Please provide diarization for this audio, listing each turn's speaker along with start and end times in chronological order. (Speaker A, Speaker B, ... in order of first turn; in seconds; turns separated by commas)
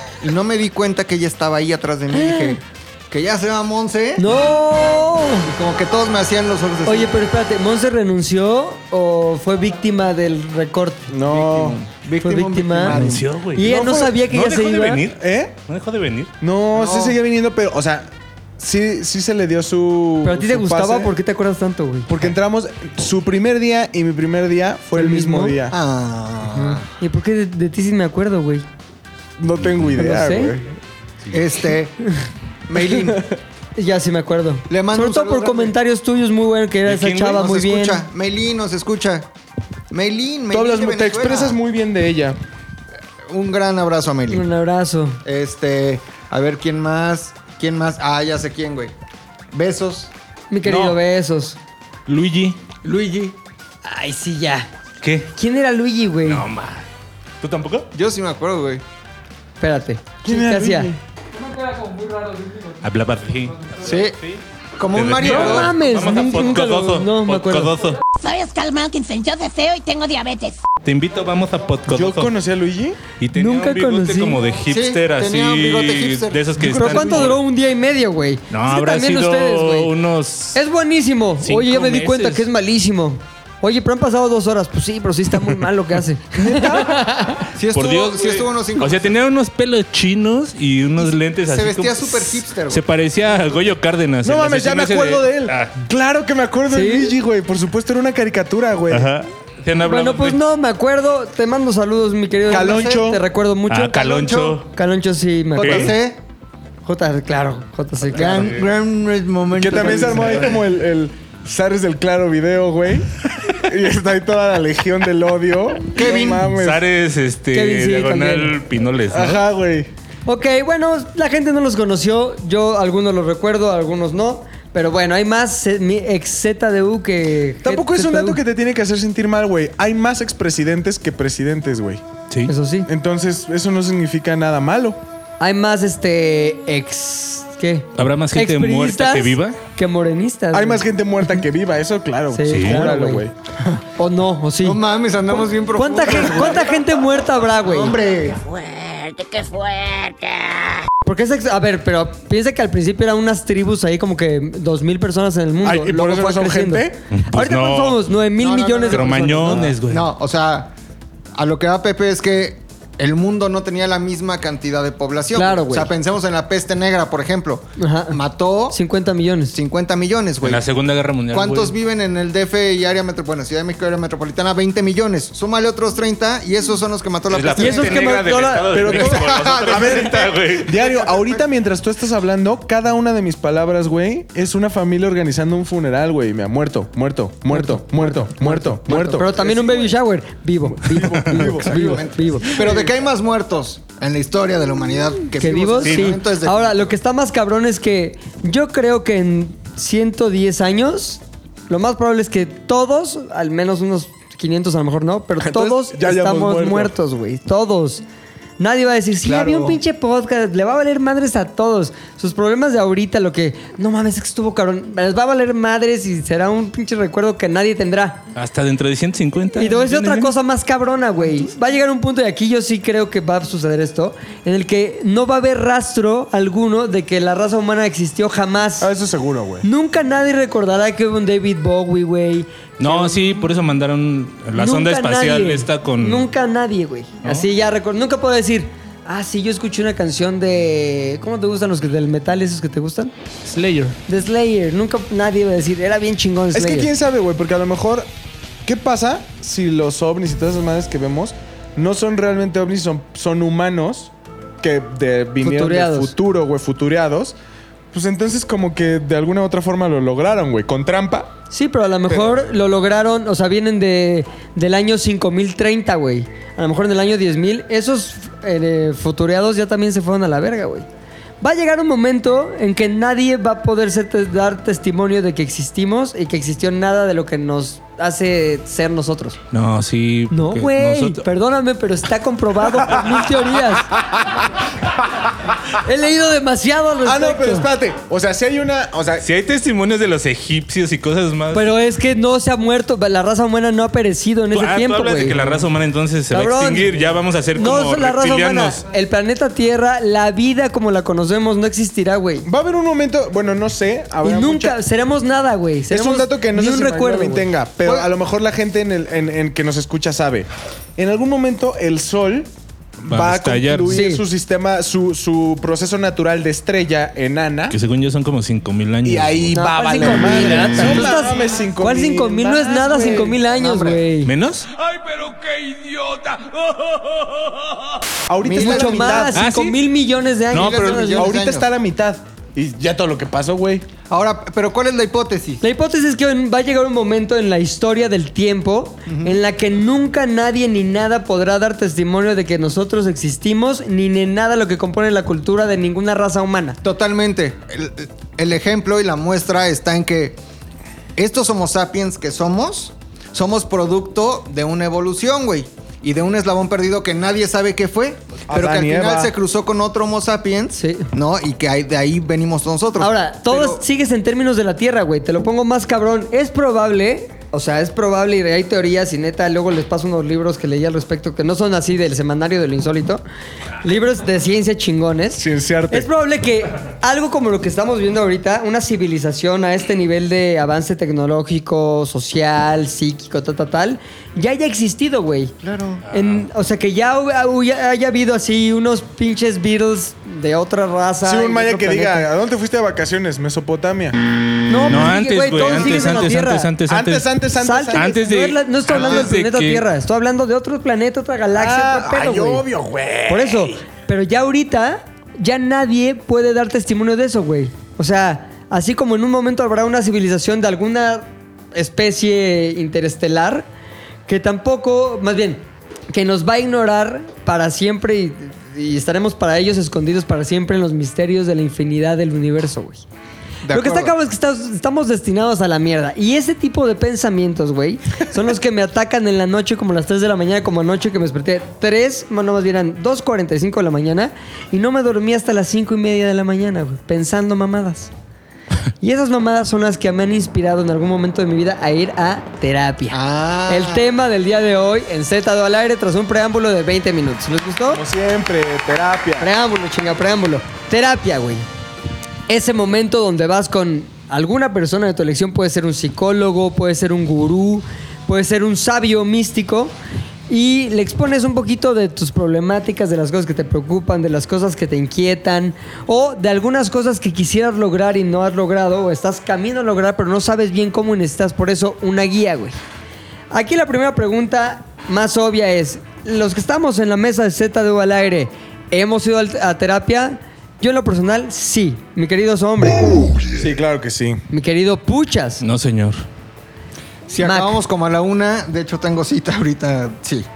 Speaker A: 0.2-4.3, Speaker B: 2.1-2.6, Speaker B: 4.2-5.5, Speaker A: 5.5-7.2, Speaker B: 6.8-11.1, Speaker C: 11.1-11.8, Speaker A: 11.2-13.3, Speaker B: 12.2-12.9, Speaker D: 12.9-16.3, Speaker B: 13.5-15.0, Speaker C: 13.6-14.2, Speaker C: 15.1-15.5, Speaker C: 16.4-21.1, Speaker A: 16.7-17.2, Speaker B: 20.2-22.1, Speaker C: 22.1-25.8, Speaker B: 24.9-25.6, Speaker A: 25.7-26.8, Speaker B: 26.9-28.6, Speaker C: 29.4-30.8, Speaker D: 29.6-29.9, Speaker B: 30.0-30.5, Speaker A: 31.3-32.0, Speaker A: 32.7-33.2, Speaker C: 33.0-33.4, Speaker B: 33.8-38.0, Speaker A: 34.7-35.7, Speaker D: 36.9-37.4, Speaker A: 37.3-39.3, Speaker A: 39.9-41.6, Speaker C: 40.5-42.4, Speaker A: 43.3-44.4, Speaker B: 44.3-45.2, Speaker A: 45.2-48.9, Speaker A: 49.5-50.1, Speaker B: 50.5-51.6, Speaker D: 50.6-51.0, Speaker D: 52.1-52.6, Speaker A: 52.8-53.3, Speaker B: 53.8-54.7, Speaker D: 55.0-55.3, Speaker B: 55.3-56.4, Speaker D: 56.2-56.9, Speaker D: 57.4-57.9, Speaker A: 57.9-58.8, Speaker B: 59.6-60.9, Speaker C: 60.2-61.0, Speaker D: 62.8-64.4, Speaker A: 63.8-64.1, Speaker A: 64.8-65.7, Speaker D: 64.9-68.0, Speaker B: 65.2-67.8, Speaker E: 68.2-70.6, Speaker D: 70.8-72.3, Speaker C: 71.9-73.0, Speaker D: 73.2-77.4, Speaker B: 73.3-74.4, Speaker A: 74.7-76.5, Speaker B: 76.6-79.9, Speaker C: 76.6-77.3, Speaker D: 78.5-80.6, Speaker B: 80.5-87.4, Speaker D: 81.4-82.5, Speaker C: 86.3-87.1, Speaker A: 87.5-89.1, Speaker D: 87.7-95.7, Speaker A: 91.0-92.8, Speaker C: 94.2-99.1, Speaker B: 96.7-97.1, Speaker D: 98.9-100.4, Speaker B: 99.8-106.0, Speaker A: 102.5-103.1, Speaker C: 102.5-103.2, Speaker D: 103.7-104.7, Speaker A: 104.0-104.5, Speaker A: 105.5-106.2, Speaker D: 105.6-105.9, Speaker B: 106.8-108.5, Speaker A: 108.1-110.6, Speaker D: 108.2-108.6, Speaker C: 109.5-116.8, Speaker A: 115.9-116.5, Speaker D: 116.5-119.4, Speaker B: 117.5-118.5, Speaker C: 119.1-119.9, Speaker B: 120.2-128.4, Speaker C: 127.6-132.0, Speaker B: 132.4-132.9, Speaker C: 132.9-135.0, Speaker B: 135.4-140.8, Speaker D: 138.0-139.6, Speaker C: 140.5-143.3, Speaker B: 142.3-143.2, Speaker D: 142.5-142.9, Speaker B: 144.0-144.8, Speaker A: 144.6-146.8, Speaker B: 145.3-148.0, Speaker A: 147.6-150.6, Speaker B: 151.0-159.6, Speaker C: 155.6-157.0, Speaker D: 157.1-158.0, Speaker A: 158.4-160.7, Speaker D: 158.9-160.1, Speaker A: 161.3-168.8, Speaker B: 165.3-165.9, Speaker B: 167.8-168.2, Speaker B: 168.7-169.6, Speaker A: 169.5-170.6, Speaker D: 170.4-171.7, Speaker A: 171.3-178.2, Speaker D: 177.3-180.8, Speaker B: 177.6-178.9, Speaker C: 178.7-190.0, Speaker A: 178.9-181.4, Speaker B: 187.5-192.6, Speaker C: 190.6-192.9, Speaker A: 191.5-196.9, Speaker B: 195.4-208.0, Speaker D: 195.8-196.2, Speaker C: 205.4-206.9, Speaker B: 208.6-218.2, Speaker A: 209.2-209.8, Speaker D: 218.3-220.3, Speaker B: 219.6-228.9, Speaker C: 228.8-229.7, Speaker B: 229.6-233.2, Speaker D: 232.8-236.3, Speaker B: 234.6-243.1, Speaker D: 243.4-244.0, Speaker B: 244.1-246.9, Speaker C: 246.5-248.1, Speaker C: 248.6-257.4, Speaker B: 255.4-256.1, Speaker C: 257.9-261.3, Speaker B: 261.5-270.9, Speaker C: 262.1-262.4, Speaker B: 271.4-279.4, Speaker D: 279.5-281.2, Speaker B: 280.3-283.9, Speaker B: 285.7-287.7, Speaker C: 287.0-289.3, Speaker D: 289.2-291.7, Speaker B: 291.5-295.6, Speaker D: 294.5-298.8, Speaker B: 296.3-302.5, Speaker C: 302.4-304.8, Speaker B: 304.2-307.5, Speaker C: 305.9-312.5, Speaker A: 307.8-308.1, Speaker C: 313.0-317.8, Speaker D: 313.1-314.0, Speaker B: 313.9-314.2, Speaker D: 317.7-319.6, Speaker C: 319.0-324.0, Speaker B: 319.5-324.3, Speaker D: 320.2-321.1, Speaker D: 324.2-324.7, Speaker C: 325.7-326.3, Speaker D: 326.9-327.3, Speaker C: 328.3-329.4, Speaker A: 328.4-329.3, Speaker B: 328.5-331.3, Speaker D: 329.3-329.8, Speaker D: 330.5-331.1, Speaker A: 330.5-331.7, Speaker C: 331.1-333.9, Speaker A: 334.1-335.6, Speaker B: 335.6-346.8, Speaker A: 339.1-339.4, Speaker A: 346.8-350.4, Speaker A: 351.1-363.8, Speaker C: 358.5-359.3, Speaker B: 360.7-361.1, Speaker B: 363.0-373.2, Speaker B: 373.8-385.5, Speaker C: 375.3-376.1, Speaker A: 385.6-386.0, Speaker D: 386.0-386.5, Speaker B: 386.1-392.3, Speaker C: 391.2-394.1, Speaker B: 394.7-396.7, Speaker D: 394.9-397.3, Speaker C: 395.7-396.3, Speaker C: 396.9-398.3, Speaker B: 397.6-402.6, Speaker D: 397.9-399.8, Speaker C: 398.9-399.3, Speaker C: 401.5-403.8, Speaker B: 403.3-413.7, Speaker B: 414.3-423.0, Speaker A: 423.6-424.1, Speaker B: 423.7-438.1, Speaker B: 439.0-448.0, Speaker A: 443.1-444.1, Speaker C: 447.9-449.5, Speaker B: 449.4-451.6, Speaker B: 452.5-459.9, Speaker B: 460.5-472.8, Speaker B: 473.5-483.4, Speaker C: 483.5-484.4, Speaker B: 484.5-485.6, Speaker D: 485.6-486.2, Speaker A: 487.3-490.5, Speaker B: 487.4-487.7